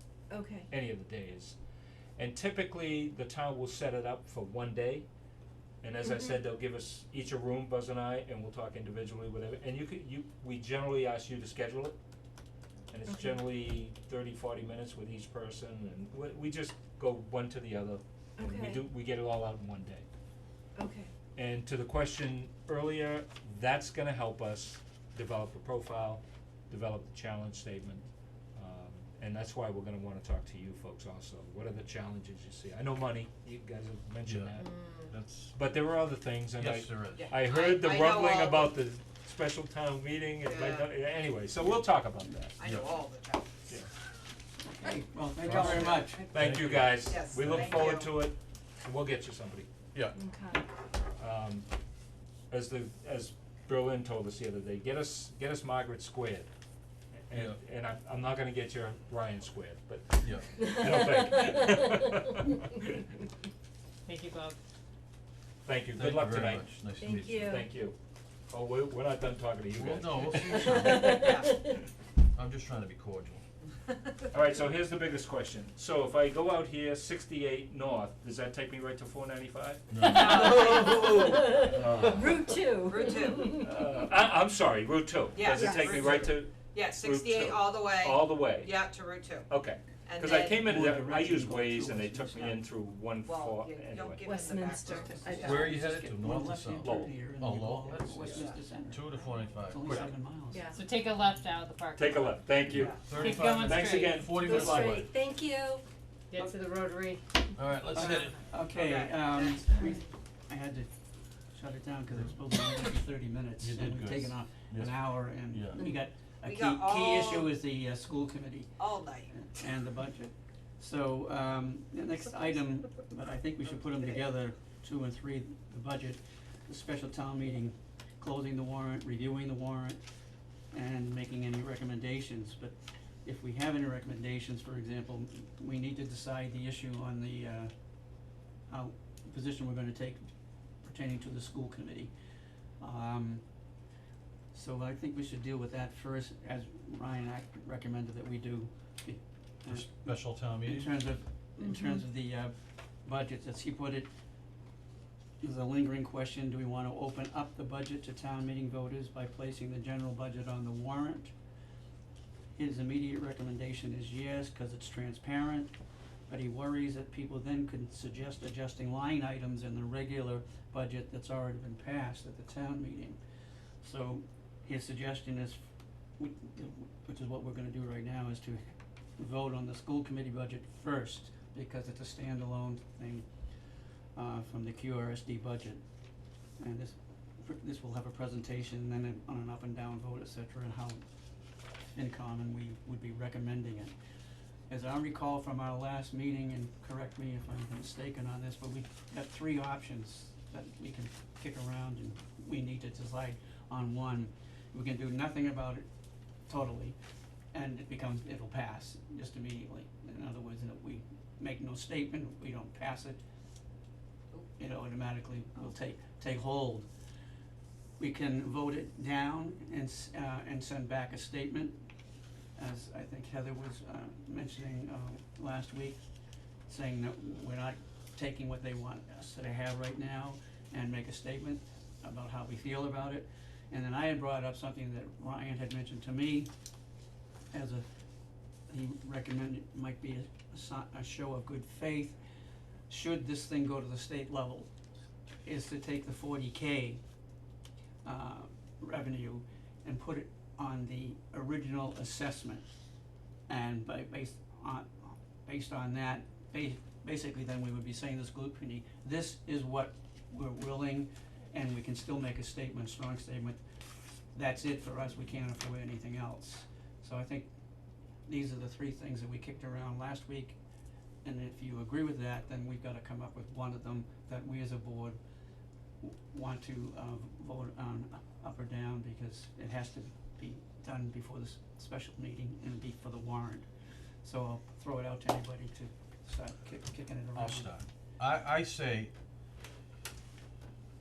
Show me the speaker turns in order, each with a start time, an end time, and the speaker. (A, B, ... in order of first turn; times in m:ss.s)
0:00.3-0:00.7 A
0:00.7-0:01.6 B
0:02.2-0:05.1 B
0:05.8-0:12.0 B
0:12.9-0:20.0 B
0:13.1-0:13.4 A
0:18.4-0:18.8 A
0:20.8-0:21.1 A
0:21.4-0:34.7 B
0:34.2-0:35.5 C
0:34.6-0:35.1 D
0:35.5-0:42.6 B
0:36.6-0:37.3 C
0:37.1-0:38.8 D
0:40.4-0:40.9 D
0:42.6-0:43.5 D
0:42.6-0:42.9 C
0:44.6-0:47.8 E
0:45.4-0:46.8 C
0:45.4-0:49.7 B
0:45.9-0:46.2 D
0:47.0-0:48.2 D
0:50.1-0:50.6 A
0:51.1-0:51.7 B
0:52.5-0:56.5 B
0:57.3-1:03.1 B
0:57.3-0:57.6 C
1:00.2-1:00.5 C
1:00.6-1:01.2 A
1:04.1-1:04.6 F
1:05.6-1:06.7 B
1:06.0-1:07.6 C
1:07.0-1:07.7 A
1:07.2-1:08.0 B
1:08.5-1:11.3 B
1:09.7-1:11.3 C
1:10.5-1:11.6 A
1:11.2-1:11.6 D
1:12.3-1:13.4 C
1:14.3-1:22.5 B
1:19.9-1:21.1 C
1:20.0-1:23.7 A
1:20.0-1:21.5 D
1:21.8-1:22.1 C
1:22.8-1:23.6 D
1:23.4-1:28.8 B
1:25.3-1:29.5 D
1:25.5-1:26.0 A
1:29.5-1:34.2 B
1:30.0-1:30.8 D
1:30.5-1:32.7 E
1:33.2-1:35.7 D
1:34.2-1:35.7 A
1:34.9-1:40.8 E
1:35.4-1:40.1 C
1:36.8-1:37.1 B
1:38.2-1:38.6 D
1:40.5-1:40.8 A
1:40.7-1:42.5 F
1:42.0-1:45.0 B
1:42.7-1:43.3 D
1:42.7-1:45.1 C
1:43.2-1:44.2 F
1:44.3-1:45.8 A
1:46.3-1:47.2 F
1:47.6-1:48.4 C
1:47.9-1:51.0 E
1:47.9-1:49.8 D
1:51.5-1:58.8 E
1:53.6-1:55.9 C
1:56.4-1:57.6 D
1:58.8-1:59.3 D
1:59.3-2:10.0 E
2:10.7-2:17.7 E
2:18.7-2:20.3 E
2:20.8-2:22.1 E
2:22.8-2:23.4 E
2:24.5-2:34.1 E
2:29.7-2:31.0 C
2:31.6-2:32.0 A
2:35.4-2:41.3 E
2:42.6-2:45.7 E
2:46.3-2:53.2 E
2:53.8-2:55.6 E
2:56.2-2:58.6 E
2:59.2-3:03.3 E
3:04.1-3:05.8 E
3:06.6-3:11.0 E
3:11.9-3:13.9 E
3:14.7-3:25.8 E
3:26.5-3:27.0 E
3:27.5-3:33.2 E
3:34.6-3:36.9 E
3:38.0-3:41.8 E
3:42.6-3:46.0 E
3:46.7-3:56.5 E
3:57.5-3:57.9 E
3:58.7-4:02.2 E
4:02.9-4:04.7 E
4:05.4-4:07.0 E
4:08.0-4:12.7 E
4:13.5-4:23.6 E
4:24.3-4:27.5 E
4:28.3-4:30.6 E
4:31.2-4:35.2 E
4:36.0-4:43.7 E
4:44.2-4:47.8 E
4:47.4-4:49.1 C